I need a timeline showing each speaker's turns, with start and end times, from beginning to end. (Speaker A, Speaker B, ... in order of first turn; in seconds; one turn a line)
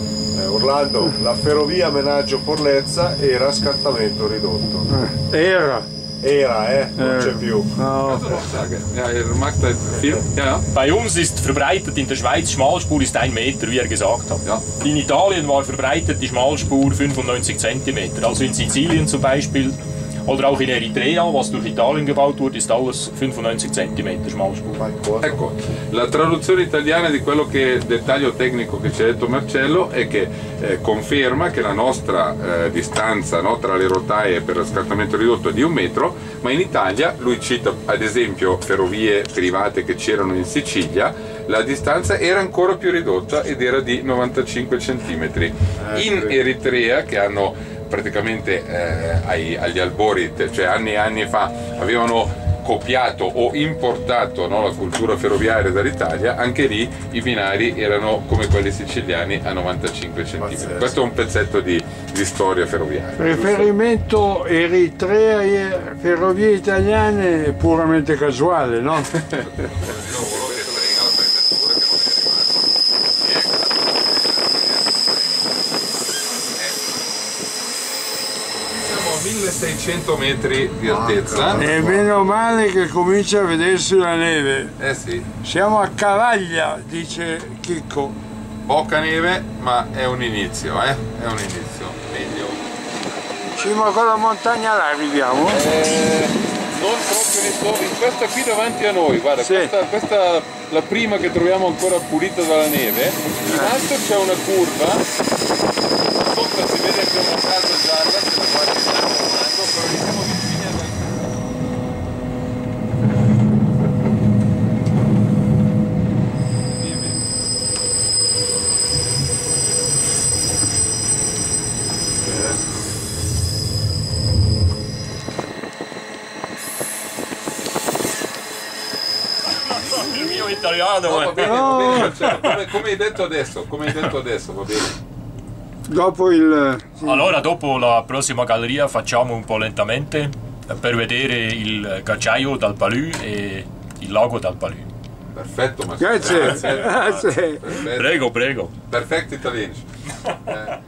Speaker A: 0.3-5.1
Speaker B: 4.9-5.9
Speaker A: 6.2-7.8
Speaker B: 7.0-8.3
Speaker C: 8.0-10.7
Speaker D: 10.7-24.8
Speaker A: 24.7-25.4
Speaker C: 25.2-63.7
Speaker A: 45.8-46.4
Speaker A: 60.4-61.0
Speaker B: 63.2-69.5
Speaker C: 69.2-77.1
Speaker C: 78.7-81.7
Speaker A: 80.8-82.1
Speaker B: 81.5-84.8
Speaker C: 84.8-85.3
Speaker B: 85.4-88.2
Speaker C: 88.7-92.7
Speaker B: 93.5-95.7
Speaker C: 95.5-105.1
Speaker B: 99.4-99.7
Speaker B: 103.5-103.8
Speaker C: 106.1-111.2
Speaker D: 129.7-132.6
Speaker C: 131.0-135.0
Speaker B: 131.4-132.2
Speaker B: 135.9-137.4
Speaker D: 137.0-144.9
Speaker C: 145.3-148.2
Speaker B: 146.0-147.6
Speaker D: 147.9-148.7
Speaker C: 148.9-150.8